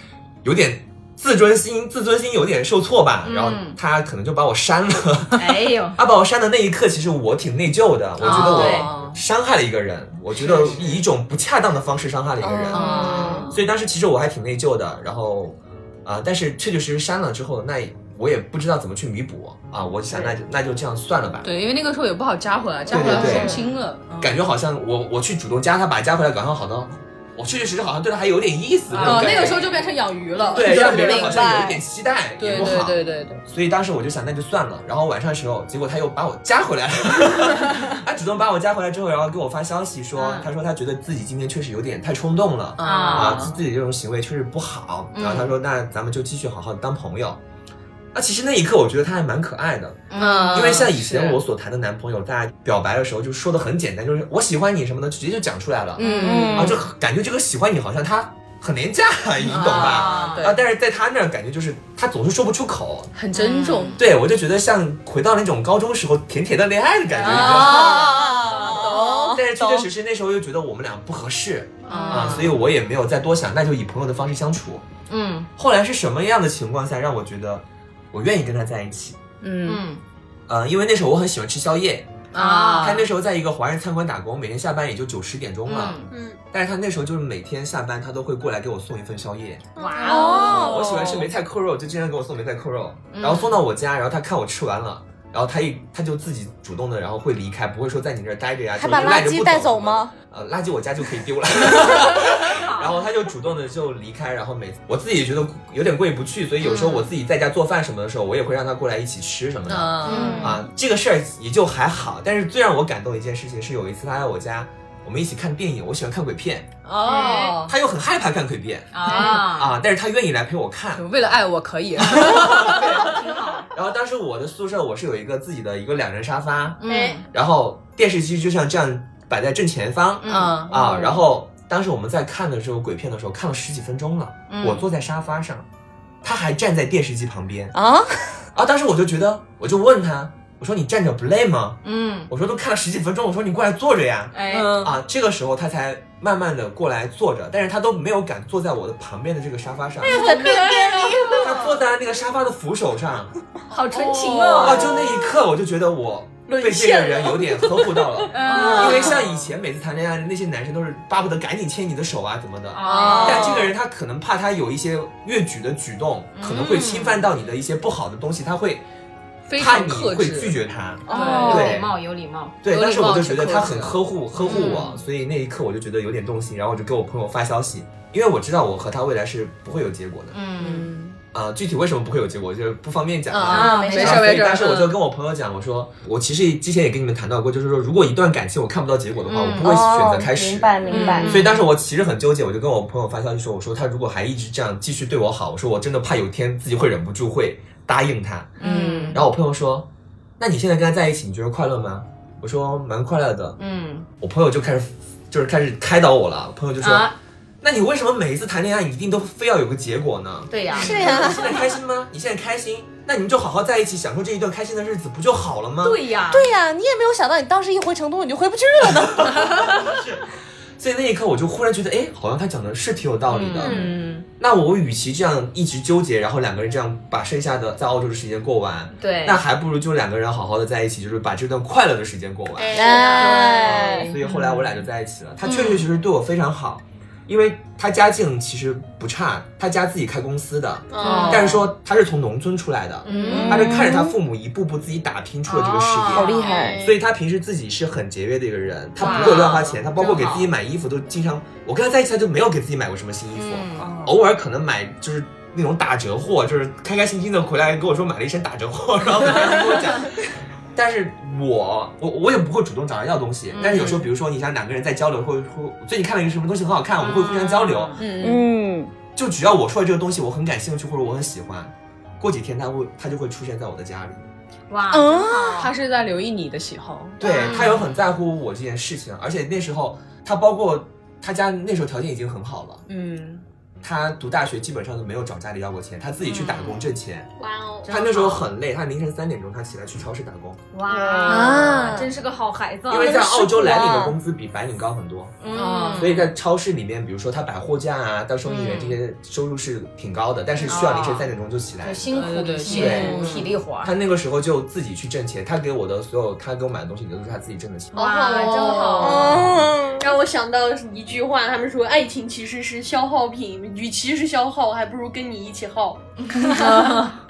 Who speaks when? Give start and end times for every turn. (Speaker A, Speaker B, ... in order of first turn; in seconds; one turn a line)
Speaker A: 0.4-21.5
Speaker B: 3.2-3.8
Speaker B: 5.3-6.0
Speaker C: 8.2-9.2
Speaker B: 8.2-8.9
Speaker B: 10.3-10.9
Speaker D: 12.4-13.5
Speaker C: 12.7-13.6
Speaker B: 12.8-13.5
Speaker C: 21.4-24.4
Speaker A: 22.9-23.6
Speaker B: 22.9-23.6
Speaker D: 23.0-23.4
Speaker A: 24.2-29.7
Speaker C: 28.9-31.6
Speaker B: 28.9-29.5
Speaker A: 30.5-47.4
Speaker D: 30.6-31.8
Speaker C: 32.4-33.4
Speaker B: 40.1-40.5
Speaker C: 42.8-43.6
Speaker B: 42.8-43.5
Speaker B: 45.1-45.5
Speaker A: 48.1-63.1
Speaker B: 50.1-50.9
Speaker C: 50.2-51.4
Speaker C: 56.0-56.8
Speaker D: 56.0-56.8
Speaker C: 59.4-60.6
Speaker B: 59.5-60.5
Speaker C: 63.1-64.0
Speaker B: 63.4-64.0
Speaker A: 64.0-68.2
Speaker C: 67.2-69.3
Speaker B: 67.2-68.5
Speaker D: 67.6-69.9
Speaker A: 69.3-74.8
Speaker B: 71.9-72.4
Speaker C: 71.9-72.6
Speaker B: 75.1-75.5
Speaker A: 75.5-79.2
Speaker C: 79.4-79.8
Speaker B: 79.7-80.0
Speaker A: 80.5-82.1
Speaker C: 82.3-83.1
Speaker B: 82.3-83.1
Speaker A: 82.8-89.6
Speaker B: 85.7-86.1
Speaker E: 86.1-86.4
Speaker E: 89.8-90.6
Speaker B: 89.8-90.8
Speaker D: 90.0-91.3
Speaker A: 90.6-121.0
Speaker B: 93.1-93.6
Speaker D: 98.7-100.1
Speaker B: 101.8-103.0
Speaker B: 106.6-107.1
Speaker C: 109.7-110.6
Speaker B: 110.0-110.6
Speaker D: 110.1-110.5
Speaker C: 116.8-117.7
Speaker B: 117.0-117.5
Speaker B: 118.9-119.8
Speaker C: 119.0-119.5
Speaker C: 120.9-123.1
Speaker A: 122.0-123.1
Speaker B: 122.3-123.7
Speaker A: 123.7-135.7
Speaker B: 126.8-127.2
Speaker E: 126.9-127.2
Speaker B: 130.2-131.1
Speaker C: 130.3-130.8
Speaker B: 134.5-134.8
Speaker A: 136.2-137.7
Speaker D: 137.7-138.4
Speaker A: 138.5-150.3
Speaker B: 141.8-142.3
Speaker B: 144.3-144.8
Speaker D: 144.5-144.9
Speaker D: 150.0-151.4
Speaker E: 150.0-151.4
Speaker B: 150.1-151.7
Speaker A: 151.4-153.4
Speaker B: 153.7-154.8
Speaker C: 153.9-154.8
Speaker E: 153.9-155.0
Speaker A: 154.6-168.8
Speaker E: 156.5-158.1
Speaker B: 158.3-159.2
Speaker C: 158.4-159.2
Speaker B: 162.7-163.6
Speaker C: 162.8-163.7
Speaker B: 166.3-167.3
Speaker C: 169.5-171.7
Speaker A: 169.6-171.9
Speaker D: 171.1-171.7
Speaker B: 171.1-172.6
Speaker A: 172.6-180.3
Speaker C: 172.7-174.9
Speaker B: 174.5-175.0
Speaker B: 180.3-180.9
Speaker C: 180.6-181.2
Speaker A: 181.3-198.6
Speaker C: 183.3-185.0
Speaker B: 183.5-184.2
Speaker D: 183.5-184.2
Speaker B: 189.3-189.7
Speaker D: 189.5-191.5
Speaker C: 190.9-191.6
Speaker B: 190.9-191.5
Speaker B: 198.6-199.2
Speaker C: 198.6-199.2
Speaker A: 199.1-199.9
Speaker A: 200.4-203.6
Speaker B: 203.6-204.1
Speaker A: 204.2-207.1
Speaker B: 206.8-207.1
Speaker A: 207.6-216.0
Speaker B: 210.5-211.5
Speaker D: 210.7-211.6
Speaker B: 215.8-216.5
Speaker D: 216.3-219.7
Speaker A: 219.3-220.3
Speaker A: 220.8-223.8
Speaker C: 223.5-224.2
Speaker B: 223.6-224.0
Speaker A: 224.4-268.0
Speaker B: 229.0-229.4
Speaker D: 232.7-234.1
Speaker B: 232.8-233.9
Speaker C: 234.2-234.8
Speaker E: 240.9-241.4
Speaker B: 241.0-241.6
Speaker C: 241.0-241.5
Speaker B: 243.0-243.7
Speaker C: 243.1-243.7
Speaker D: 243.3-244.2
Speaker B: 245.5-246.6
Speaker D: 246.1-246.9
Speaker B: 249.0-250.5
Speaker B: 253.3-253.8
Speaker B: 263.5-263.8
Speaker C: 263.6-264.0
Speaker B: 267.0-268.0
Speaker E: 268.0-268.4
Speaker D: 268.2-268.9
Speaker A: 269.1-274.2
Speaker B: 274.7-275.7
Speaker D: 274.9-275.7
Speaker C: 275.6-277.2
Speaker B: 277.2-277.8
Speaker A: 277.2-282.8
Speaker A: 283.8-287.3
Speaker B: 286.3-286.8
Speaker E: 287.4-287.9
Speaker B: 287.8-288.4
Speaker A: 287.9-290.6
Speaker B: 290.7-294.1
Speaker D: 290.9-292.1
Speaker E: 291.1-291.4
Speaker A: 292.9-295.4
Speaker D: 293.1-293.9
Speaker B: 295.4-296.2
Speaker C: 295.5-296.3
Speaker A: 296.0-307.9
Speaker B: 298.4-299.0
Speaker B: 300.7-301.3
Speaker B: 301.8-303.9
Speaker C: 302.1-303.3
Speaker E: 307.9-316.0
Speaker B: 307.9-309.4
Speaker C: 308.6-309.2
Speaker D: 309.0-310.1
Speaker B: 316.3-317.1